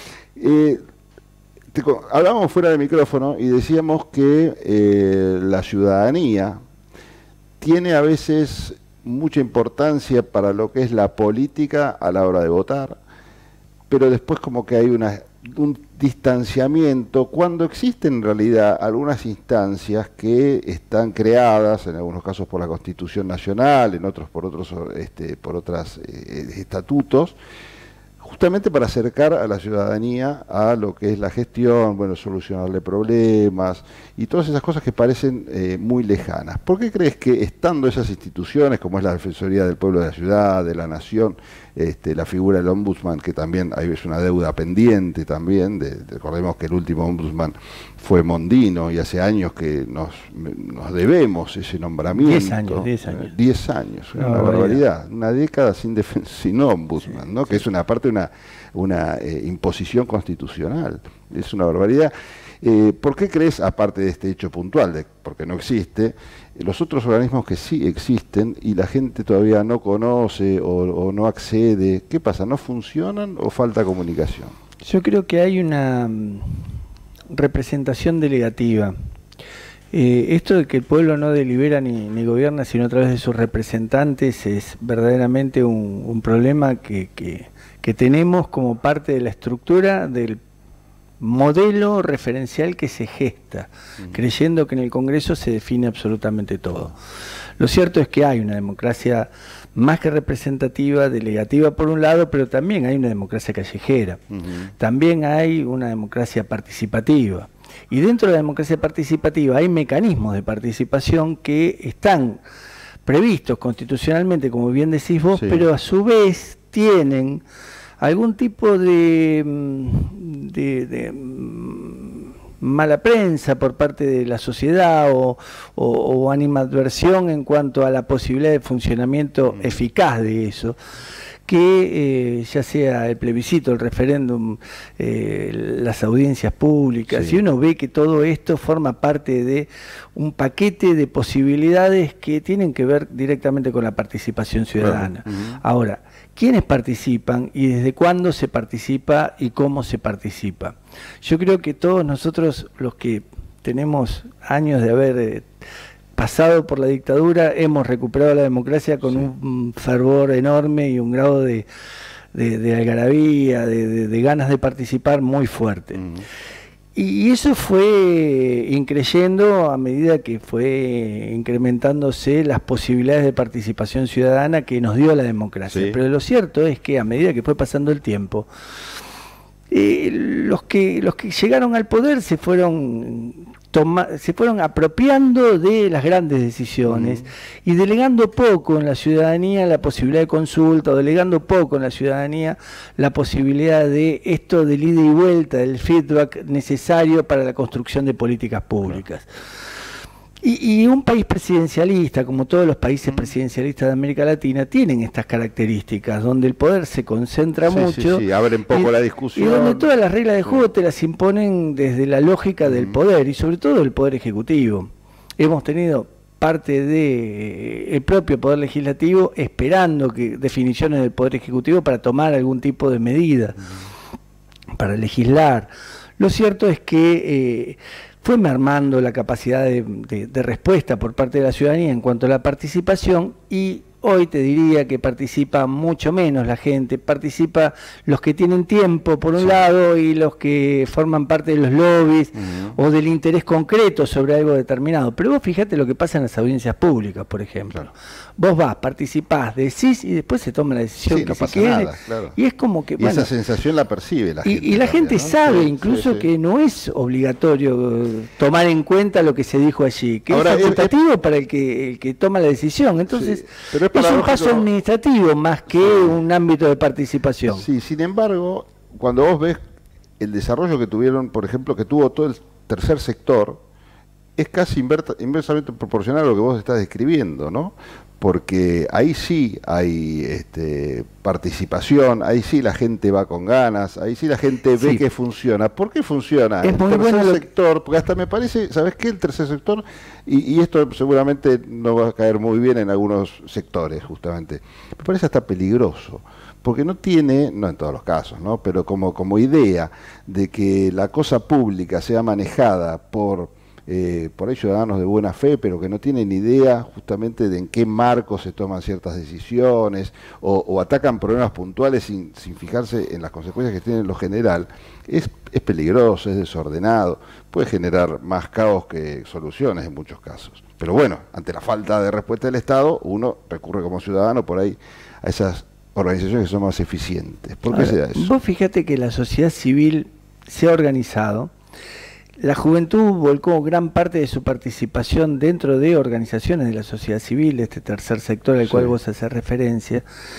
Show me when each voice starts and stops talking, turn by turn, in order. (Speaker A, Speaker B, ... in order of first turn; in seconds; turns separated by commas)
Speaker A: 0.3-0.8, Speaker A: 1.7-6.6, Speaker A: 7.6-13.0, Speaker A: 13.9-27.4, Speaker A: 28.2-74.5, Speaker B: 52.1-53.3, Speaker B: 54.2-54.8, Speaker B: 74.8-76.7, Speaker B: 77.3-78.9, Speaker B: 79.9-90.4, Speaker B: 91.2-96.9, Speaker B: 97.6-104.2, Speaker A: 104.3-104.7, Speaker B: 104.8-112.4, Speaker B: 113.0-117.4, Speaker A: 115.3-115.6, Speaker B: 118.0-130.8, Speaker B: 131.5-155.5, Speaker A: 137.1-137.4, Speaker A: 144.8-145.6, Speaker B: 156.2-161.7, Speaker B: 162.3-166.0, Speaker A: 165.9-166.2, Speaker B: 166.9-178.5, Speaker A: 175.7-176.0, Speaker B: 179.7-199.3, Speaker A: 186.9-187.2, Speaker B: 200.4-223.6, Speaker A: 207.7-209.9, Speaker A: 212.7-213.0, Speaker B: 224.8-253.3, Speaker A: 239.4-239.6, Speaker A: 242.4-242.8, Speaker A: 251.1-252.3, Speaker A: 253.0-256.3, Speaker B: 254.4-267.7, Speaker A: 260.3-260.9, Speaker A: 263.1-264.7, Speaker A: 265.8-266.1, Speaker A: 267.5-269.6, Speaker A: 270.2-273.6, Speaker A: 274.4-328.3, Speaker B: 284.8-285.0, Speaker B: 286.6-287.5, Speaker B: 327.7-331.5, Speaker B: 332.4-340.0, Speaker A: 338.7-338.9